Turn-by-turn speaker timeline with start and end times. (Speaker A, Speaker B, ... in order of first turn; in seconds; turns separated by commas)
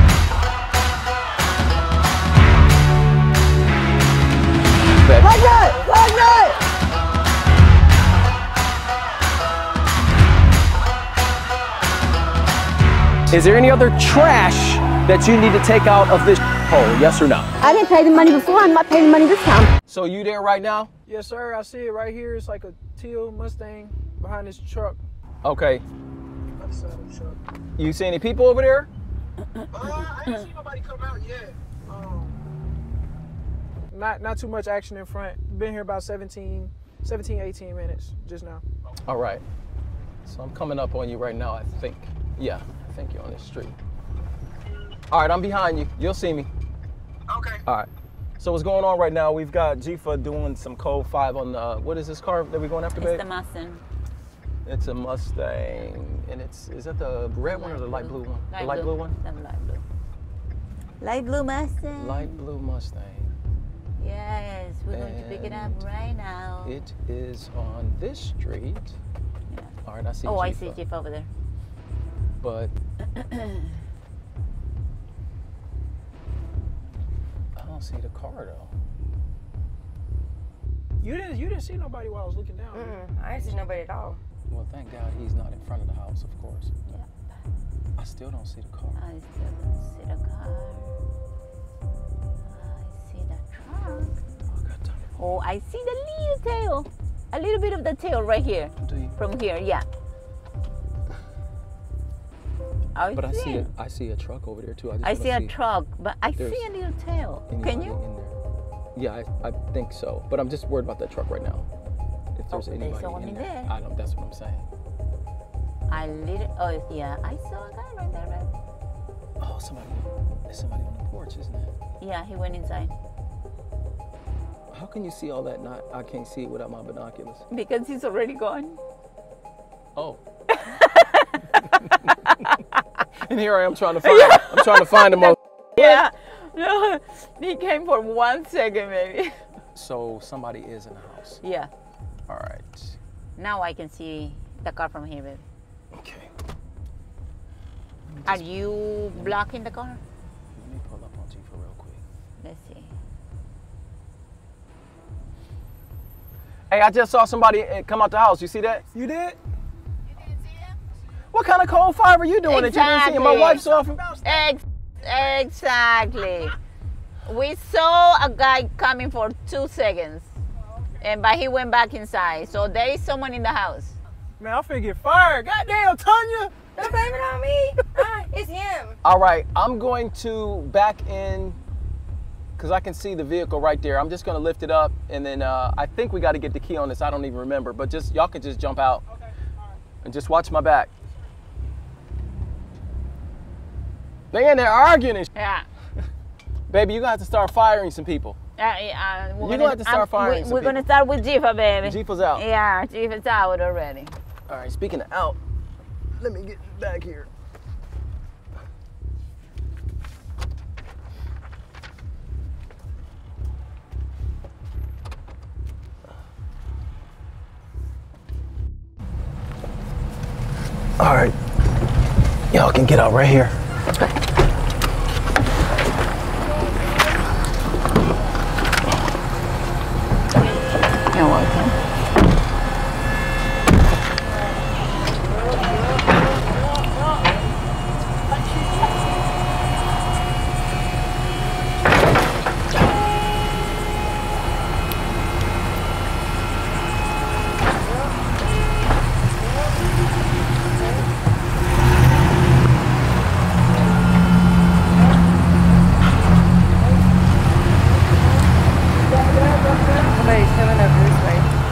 Speaker A: 5.0-5.5, Speaker B: 5.4-6.5, Speaker A: 13.3-17.5, Speaker B: 17.6-19.7, Speaker A: 19.9-20.9, Speaker C: 21.1-25.0, Speaker A: 25.4-25.8, Speaker C: 26.6-27.3, Speaker A: 27.8-28.9, Speaker C: 29.7-32.3, Speaker C: 33.9-38.6, Speaker A: 39.1-39.4, Speaker A: 40.2-43.8, Speaker A: 45.1-46.5, Speaker A: 47.5-47.9, Speaker A: 48.4-53.2, Speaker D: 53.0-53.8, Speaker A: 54.6-59.1, Speaker D: 57.4-59.8, Speaker D: 61.0-62.4, Speaker A: 62.0-63.3, Speaker D: 64.0-66.8, Speaker A: 64.9-65.8, Speaker A: 66.6-68.9, Speaker D: 69.5-71.3, Speaker A: 69.8-70.8, Speaker A: 72.4-72.7, Speaker D: 73.1-73.6, Speaker A: 77.5-78.7, Speaker C: 81.0-83.5, Speaker E: 82.7-84.2, Speaker A: 84.5-86.7, Speaker D: 86.9-87.2, Speaker A: 88.0-89.0, Speaker D: 89.0-90.9, Speaker D: 92.4-94.2, Speaker A: 94.5-95.2, Speaker D: 95.2-99.8, Speaker A: 98.8-99.2, Speaker D: 102.9-103.7, Speaker A: 103.1-105.5, Speaker D: 105.0-108.0, Speaker A: 106.4-106.6, Speaker A: 107.5-108.4, Speaker A: 108.9-111.7, Speaker A: 112.3-114.7, Speaker D: 112.5-113.7, Speaker D: 115.9-118.5, Speaker A: 119.4-121.7, Speaker D: 122.0-122.9, Speaker A: 124.7-127.4, Speaker D: 127.5-128.8, Speaker D: 130.6-132.4, Speaker A: 133.2-136.0, Speaker D: 134.1-139.3, Speaker A: 139.7-141.4, Speaker D: 141.4-141.7, Speaker A: 142.3-142.9, Speaker D: 143.4-145.4, Speaker A: 145.9-146.3, Speaker A: 148.1-148.6, Speaker D: 148.2-150.0, Speaker A: 149.1-149.4, Speaker A: 150.6-152.0, Speaker D: 152.4-152.9, Speaker A: 156.7-159.3, Speaker A: 161.3-164.1, Speaker D: 162.4-163.7, Speaker D: 164.2-166.6, Speaker D: 167.2-170.3, Speaker D: 171.0-173.9, Speaker C: 174.4-176.7, Speaker E: 176.7-179.0, Speaker A: 179.0-181.6, Speaker A: 182.6-189.0, Speaker A: 190.0-190.9, Speaker A: 194.3-195.3, Speaker D: 195.3-195.7, Speaker A: 196.7-198.4, Speaker D: 198.6-204.1, Speaker A: 199.4-200.8, Speaker A: 201.8-202.4, Speaker A: 204.5-205.4, Speaker A: 206.2-207.3, Speaker A: 221.0-221.3, Speaker A: 222.5-223.5, Speaker D: 231.1-231.7, Speaker E: 260.0-261.5